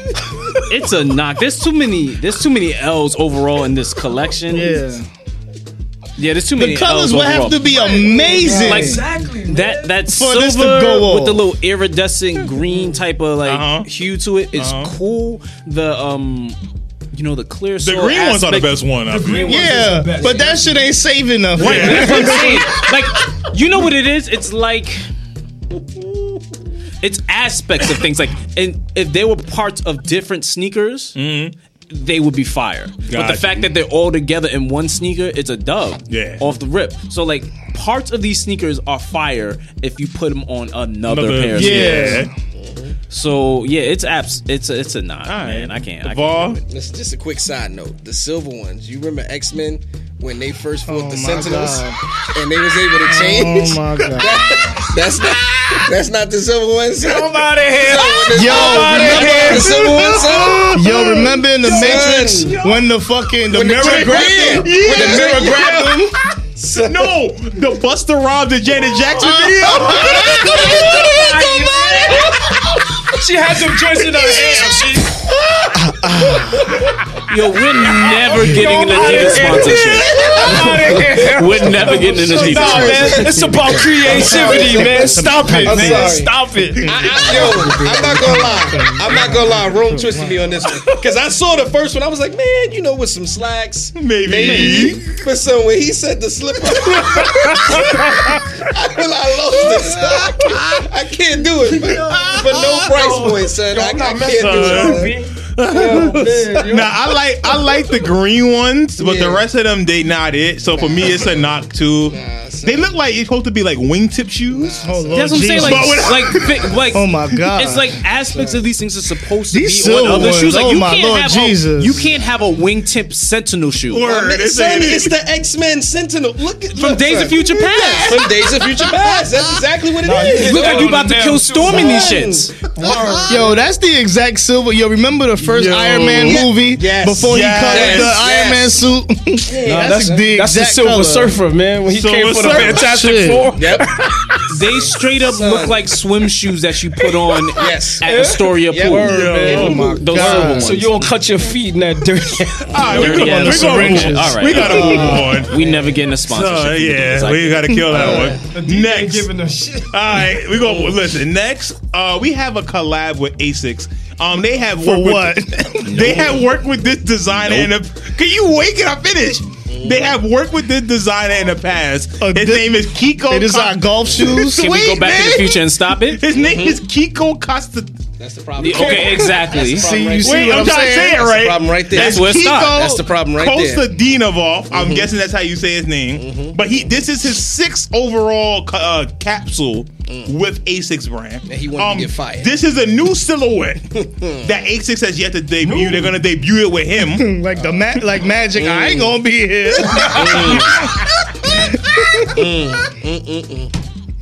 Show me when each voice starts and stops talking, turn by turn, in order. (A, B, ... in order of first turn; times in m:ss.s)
0:00.6-0:04.8 A
0:04.5-0:05.1 B
0:06.2-0:16.6 A
0:06.6-0:09.0 B
0:07.7-0:09.9 C
0:10.1-0:11.4 B
0:13.4-0:13.9 D
0:14.5-0:15.0 D
0:17.1-0:18.8 A
0:17.8-0:19.8 D
0:19.1-0:20.9 C
0:19.5-0:22.7 B
0:21.5-0:22.7 D
0:21.6-0:25.0 A
0:21.7-0:22.3 C
0:27.0-0:31.2 A
0:31.1-0:31.5 D
0:31.9-0:42.2 A
0:33.0-0:33.7 D
0:36.1-0:36.4 D
0:41.1-0:42.3 D
0:41.5-0:42.3 B
0:42.6-0:42.9 E
0:43.1-0:46.6 A
0:45.2-0:46.6 D
0:46.6-1:00.9 E
0:50.9-0:52.0 B
0:53.0-0:54.8 B
0:54.2-0:54.9 D
0:55.5-0:55.8 D
0:57.0-1:00.1 C
0:58.3-0:59.8 B
0:58.9-1:02.7 D
1:00.7-1:06.1 B
1:01.6-1:02.6 E
1:01.6-1:02.8 C
1:03.5-1:07.1 E
1:03.8-1:05.6 D
1:06.8-1:11.1 D
1:09.2-1:12.4 B
1:09.7-1:15.3 C
1:10.0-1:11.1 E
1:14.2-1:14.8 B
1:15.7-1:17.0 B
1:17.3-1:23.3 A
1:17.8-1:28.2 C
1:19.1-1:21.0 B
1:20.1-1:20.7 E
1:21.6-1:26.2 B
1:22.2-1:45.2 E
1:22.5-1:23.0 D
1:26.8-1:30.6 B
1:34.0-1:35.0 D
1:34.4-1:35.0 A
1:36.8-1:38.5 D
1:39.8-1:40.9 D
1:41.7-1:47.0 C
1:41.8-1:43.0 D
1:43.7-1:55.0 D
1:49.0-1:49.4 E
1:50.7-1:51.4 E
1:52.0-1:52.9 E
1:54.5-1:55.8 E
1:54.8-1:56.1 B
1:55.1-2:04.1 A
1:55.5-1:56.7 D
1:56.9-1:57.9 B
1:58.2-1:58.7 E
1:59.5-2:02.0 B
2:03.9-2:05.1 D
2:04.0-2:11.0 E
2:06.7-2:08.2 A
2:07.7-2:09.6 D
2:10.0-2:13.5 C
2:10.3-2:12.5 A
2:11.7-2:12.6 E
2:12.8-2:13.6 D
2:13.3-2:21.3 B
2:15.4-2:16.5 D
2:16.2-2:18.8 E
2:17.2-2:18.2 D
2:19.4-2:20.3 E
2:19.6-2:24.4 C
2:21.9-2:22.9 D
2:22.7-2:23.5 B
2:23.5-2:23.9 E
2:24.5-2:31.1 A
2:24.6-2:25.9 E
2:27.5-2:28.1 E
2:28.0-2:34.0 C
2:28.6-2:30.0 E
2:29.0-2:29.7 D
2:29.4-2:30.7 B
2:32.7-2:35.6 D
2:32.8-2:38.3 A
2:32.9-2:35.2 B
2:34.6-2:35.3 E
2:34.6-2:35.8 C
2:36.2-2:39.3 D
2:37.7-2:38.2 B
2:37.9-2:38.4 E
2:38.0-2:40.3 C
2:39.9-2:58.0 D
2:40.6-2:41.0 E
2:44.8-2:46.2 B
2:45.8-2:46.3 A
2:49.7-2:50.2 E
2:52.2-2:54.7 B
2:54.5-2:56.2 A
2:56.3-2:56.8 E
2:58.2-3:03.8 E
2:58.6-2:59.9 A
2:59.7-3:01.2 B
3:00.2-3:13.8 D
3:01.9-3:02.9 A
3:04.7-3:05.1 E
3:06.1-3:06.6 E
3:11.4-3:12.5 E
3:13.9-3:14.5 E
3:14.4-3:17.3 D
3:15.6-3:16.1 C
3:17.0-3:22.5 B
3:18.5-3:19.2 E
3:19.9-3:21.0 E
3:22.3-3:23.7 E